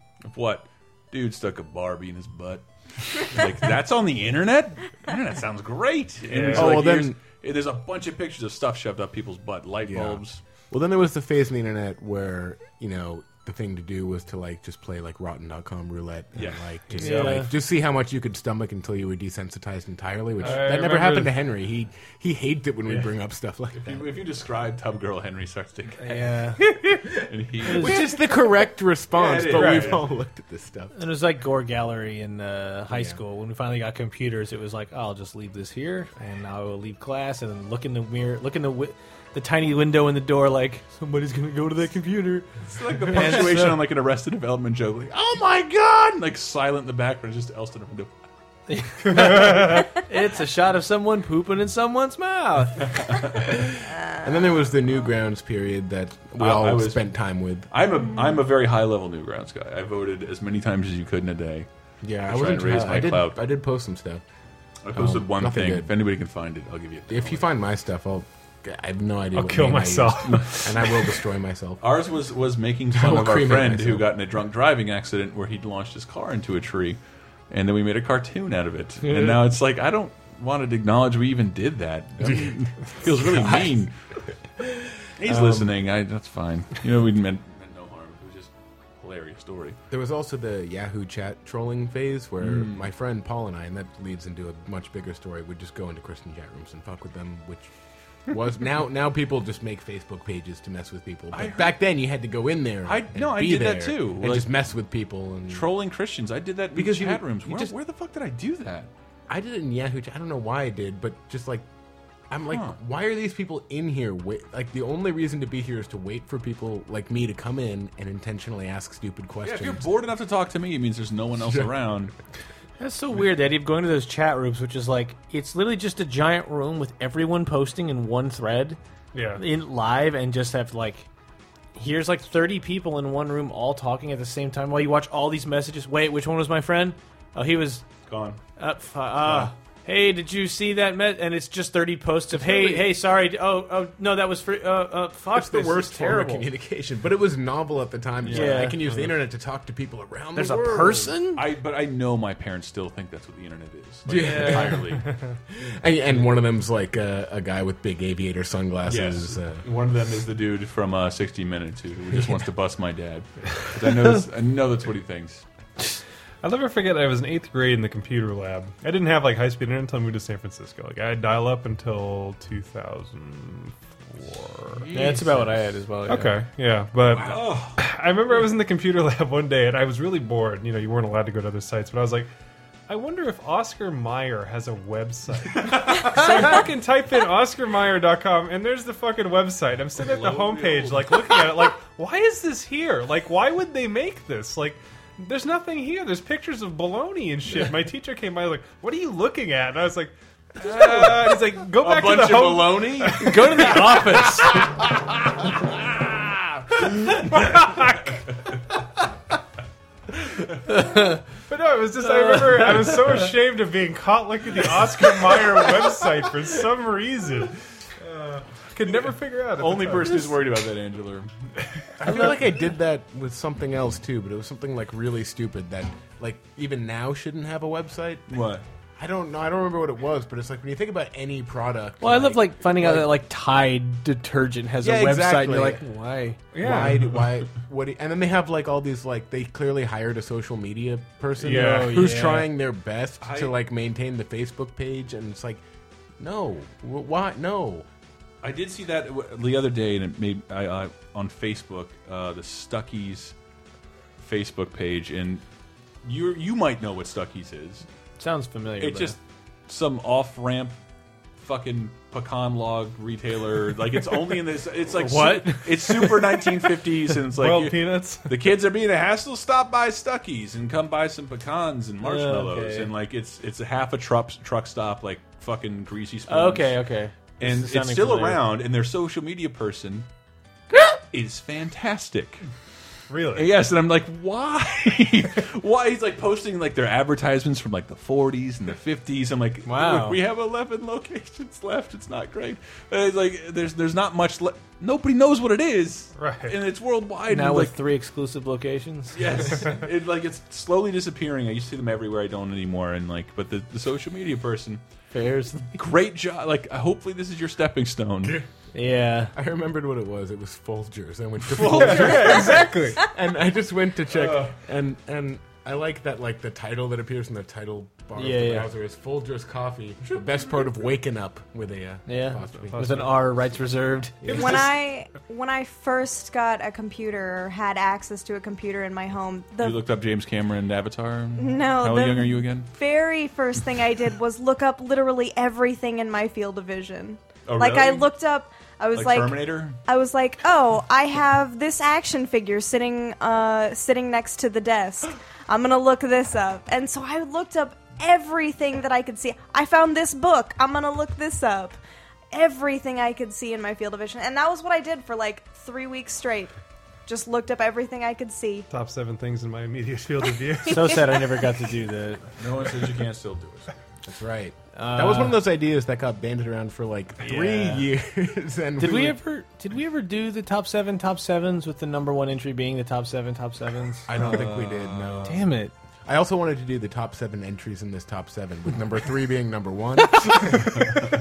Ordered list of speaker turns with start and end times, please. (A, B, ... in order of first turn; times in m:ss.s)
0:00.2-0:10.4 A
0:06.2-0:06.8 B
0:06.5-0:07.2 C
0:09.8-0:24.1 C
0:16.3-0:17.5 A
0:17.0-0:17.5 D
0:20.4-0:21.3 B
0:23.8-0:26.4 A
0:26.0-0:28.1 D
0:27.1-0:28.2 A
0:27.6-0:31.0 C
0:29.1-0:30.0 A
0:29.5-0:30.0 B
0:30.9-0:42.5 D
0:32.9-0:33.2 C
0:42.6-0:48.1 A
0:43.1-0:43.8 D
0:48.7-0:53.0 D
0:53.0-0:53.5 A
0:53.3-0:57.7 C
0:56.4-0:57.0 A
0:57.7-1:01.7 A
1:02.0-1:04.2 C
1:02.2-1:03.4 A
1:04.8-1:07.5 A
1:04.9-1:05.9 C
1:07.1-1:11.8 C
1:09.3-1:11.1 B
1:10.2-1:10.6 A
1:11.8-1:17.0 A
1:12.9-1:14.1 C
1:17.5-1:23.9 A
1:19.0-1:19.4 D
1:22.2-1:23.6 C
1:25.2-1:29.8 A
1:25.2-1:25.7 C
1:29.9-1:37.7 C
1:32.4-1:32.8 A
1:38.3-1:45.7 C
1:41.3-1:41.8 A
1:42.8-1:44.5 A
1:45.5-1:48.9 A
1:46.7-1:47.7 C
1:49.3-1:51.6 C
1:52.3-1:59.9 C
1:52.5-1:52.8 A
1:59.4-2:02.1 A
2:02.8-2:08.8 D
2:09.1-2:09.4 B
2:09.4-2:11.1 D
2:11.8-2:17.8 D
2:18.1-2:18.4 A
2:18.6-2:26.5 D
2:22.4-2:22.8 C
2:25.3-2:31.1 C
2:28.3-2:28.8 D
2:28.3-2:28.6 A
2:30.3-2:31.4 D
2:31.4-2:35.1 A
2:34.0-2:39.6 C
2:34.2-2:34.8 D
2:38.8-2:45.4 A
2:46.4-2:54.9 B
2:54.7-2:55.6 A
2:54.9-2:56.4 D
2:56.1-3:02.3 B
2:57.1-2:57.8 A
3:02.9-3:24.0 B
3:10.0-3:11.3 A
3:20.6-3:24.6 A
3:23.1-3:24.6 D
3:26.7-3:28.2 B
3:30.6-3:31.2 D
3:30.7-3:40.4 B
3:32.0-3:33.1 D
3:39.6-3:41.3 A
3:42.0-3:48.3 C
3:48.3-3:48.6 A
3:49.0-3:53.1 C
3:52.0-3:56.5 D
3:54.8-3:55.8 C
3:56.5-3:57.1 B
3:56.6-4:05.6 C
4:01.4-4:02.5 D
4:01.4-4:02.1 B
4:03.2-4:03.5 A
4:06.2-4:07.8 C
4:08.4-4:13.3 A
4:14.2-4:15.4 A
4:16.0-4:17.8 A
4:18.2-4:19.2 D
4:18.8-4:20.8 A
4:21.4-4:36.8 A
4:25.0-4:26.6 D
4:27.3-4:28.4 B
4:32.0-4:32.9 D
4:36.3-4:38.4 D
4:37.4-4:40.1 A
4:40.9-4:42.4 A
4:43.1-4:43.5 B
4:43.3-4:57.8 A
4:49.6-4:50.2 D
4:56.2-4:56.6 B
4:57.3-4:59.4 D
4:59.1-5:04.8 A
5:05.1-5:05.8 D
5:05.7-5:08.4 A
5:08.7-5:09.3 D
5:09.3-5:23.0 C
5:11.5-5:12.5 A
5:11.7-5:13.0 B
5:14.1-5:14.5 A
5:18.1-5:18.7 D
5:22.1-5:24.6 D
5:22.6-5:23.3 B
5:24.2-5:24.6 C
5:24.3-5:24.6 B
5:24.3-5:29.8 E
5:29.6-5:32.7 A
5:31.4-5:51.8 E
5:37.4-5:38.1 A
5:38.9-5:39.8 A
5:52.3-5:56.5 E
5:57.0-5:58.7 E
5:58.7-6:01.2 B
6:00.6-6:02.2 D
6:02.4-6:03.7 A
6:04.0-6:09.2 C
6:04.7-6:05.4 D
6:07.2-6:07.9 D
6:08.8-6:14.1 D
6:14.1-6:15.3 A
6:14.1-6:15.4 C
6:15.2-6:15.7 D
6:16.0-6:20.7 C
6:20.1-6:20.7 D